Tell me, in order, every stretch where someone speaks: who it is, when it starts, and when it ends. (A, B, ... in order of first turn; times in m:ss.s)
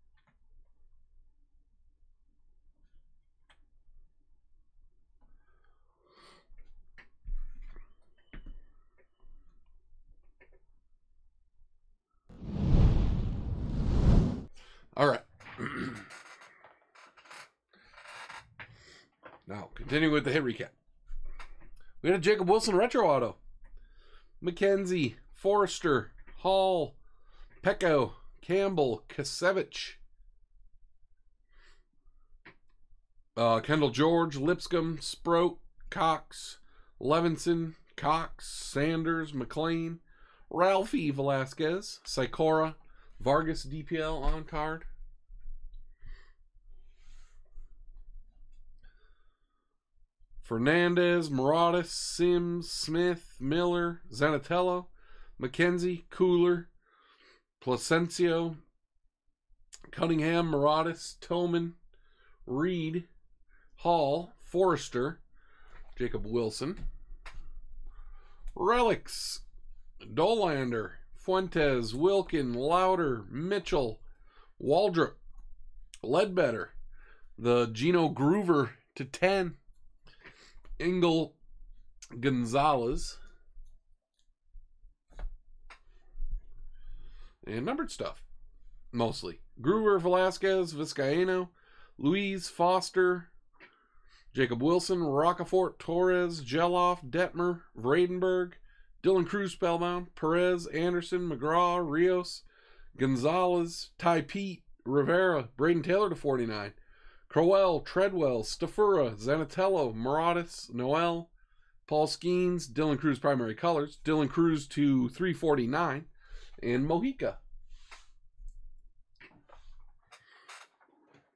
0:14.9-0:16.1 A
0:19.5-0:20.7 A
0:22.0-0:23.4 A
0:24.4-0:27.0 A
0:27.6-0:30.0 A
0:33.4-0:44.9 A
0:50.4-0:56.7 A
0:57.6-0:58.6 A
0:59.9-1:01.8 A
1:02.4-1:03.1 A
1:03.8-1:05.2 A
1:05.9-1:06.8 A
1:08.5-1:09.4 A
1:10.0-1:14.0 A
1:14.6-1:15.2 A
1:16.0-1:16.7 A
1:17.4-1:19.6 A
1:20.8-1:21.4 A
1:22.1-1:23.2 A
1:27.4-1:28.2 A
1:28.9-1:33.3 A
1:34.3-1:42.4 A
1:43.0-1:46.8 A
1:47.3-1:51.3 A
1:51.8-1:56.1 A
1:56.6-1:57.4 A